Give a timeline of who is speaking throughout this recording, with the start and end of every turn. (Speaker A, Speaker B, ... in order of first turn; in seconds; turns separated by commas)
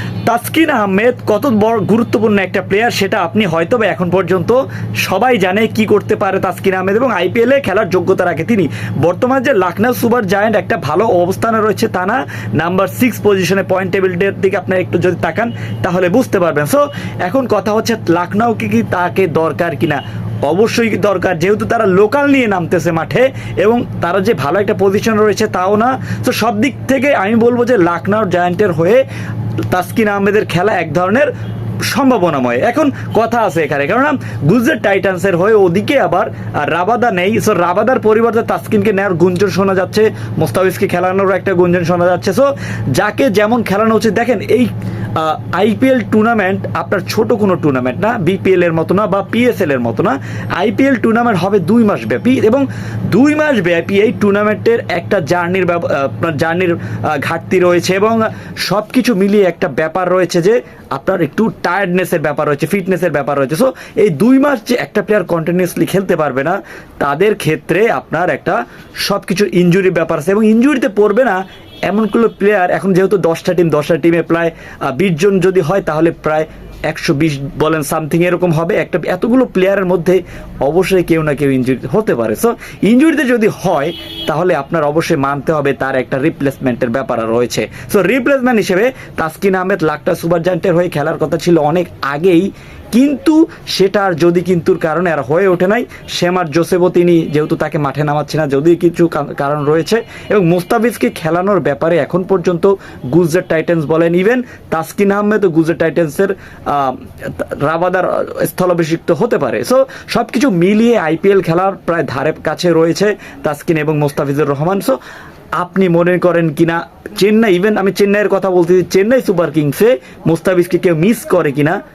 Speaker A: 0.2-29.0, Speaker A: 29.7-31.3, Speaker A: 31.9-115.0, Speaker A: 115.6-121.8